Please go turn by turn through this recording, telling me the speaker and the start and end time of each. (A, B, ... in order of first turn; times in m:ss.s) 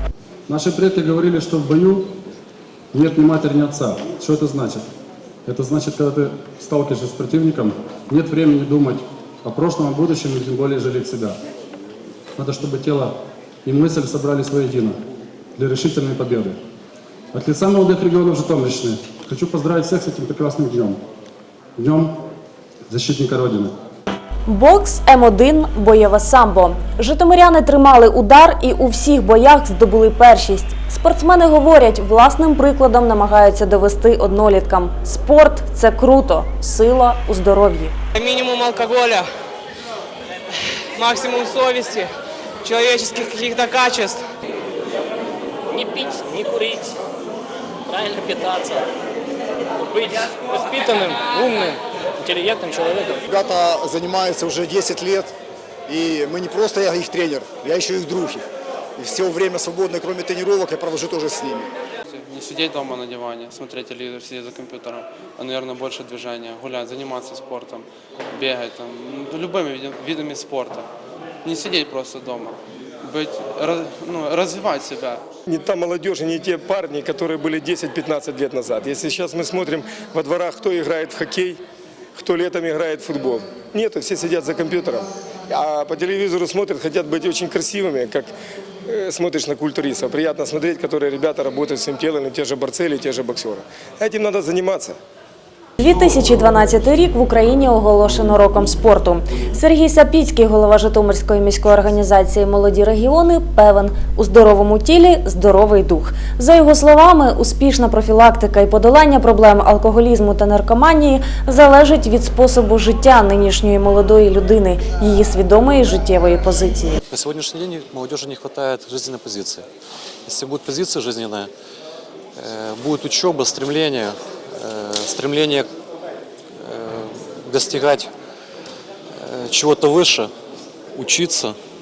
0:00.5-0:02.1 A
0:02.9-0:04.8 A
0:05.4-0:11.4 A
0:12.4-0:13.1 A
0:13.6-0:15.0 A
0:15.6-0:16.6 A
0:17.3-0:21.0 A
0:21.8-0:22.1 A
0:22.9-0:23.7 A
0:24.5-0:37.9 B
0:38.1-0:39.3 C
0:41.0-0:42.1 C
0:42.6-0:44.2 C
0:45.7-0:46.9 D
0:47.9-0:48.9 D
0:49.8-0:53.2 D
0:53.2-0:55.3 E
0:55.9-0:58.5 E
0:59.0-1:01.7 E
1:02.1-1:10.8 F
1:11.4-1:15.2 F
1:15.5-1:21.6 G
1:22.2-1:28.3 G
1:28.9-1:35.0 G
1:35.8-1:57.0 B
1:57.1-1:59.7 H
2:00.2-2:01.5 H
2:02.4-2:05.7 H
2:06.6-2:08.1 H
2:09.1-2:10.3 H
2:10.9-2:11.6 H